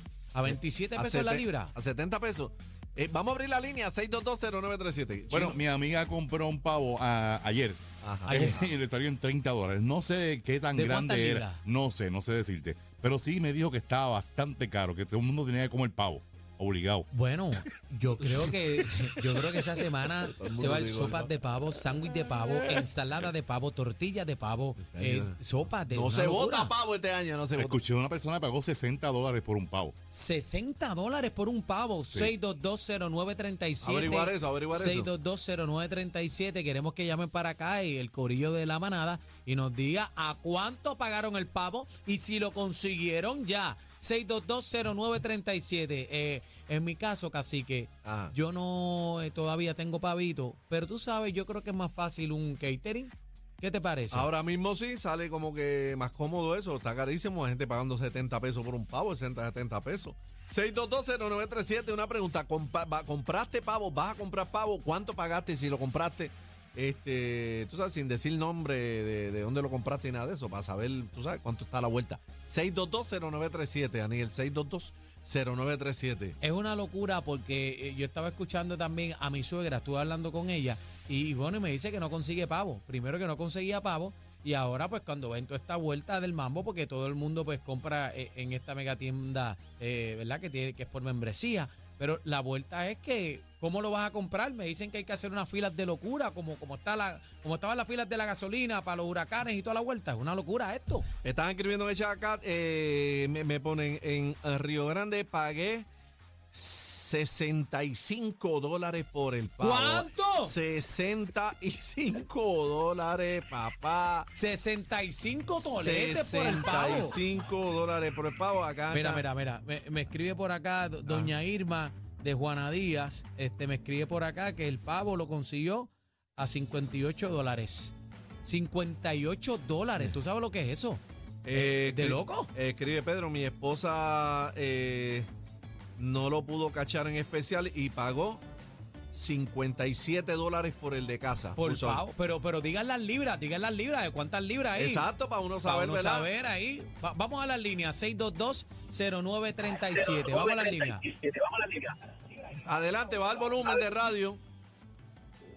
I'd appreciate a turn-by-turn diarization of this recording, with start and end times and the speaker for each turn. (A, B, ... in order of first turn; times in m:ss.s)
0:00.3-0:01.7 A
0:00.4-0:05.6 B
0:05.3-0:07.8 C
0:08.0-0:08.7 B
0:08.2-0:08.7 A
0:08.3-0:17.1 C
0:10.7-0:11.6 A
0:17.1-0:26.7 A
0:20.2-0:21.3 B
0:22.4-0:22.8 B
0:24.8-0:25.4 B
0:25.9-0:27.8 B
0:27.6-0:29.9 C
0:30.1-0:54.3 A
0:33.8-0:35.1 B
0:48.0-0:48.3 B
0:54.1-1:16.4 B
1:16.4-1:41.0 A
1:41.2-1:45.9 B
1:46.5-1:54.3 B
1:49.6-1:50.6 A
1:54.3-1:57.2 A
1:55.6-1:59.2 B
1:58.9-2:12.5 A
2:01.0-2:01.3 B
2:11.4-2:15.3 B
2:16.0-2:18.4 B
2:19.1-2:22.0 B
2:21.6-2:25.1 A
2:24.8-2:26.3 B
2:25.6-2:31.1 A
2:32.6-2:34.4 B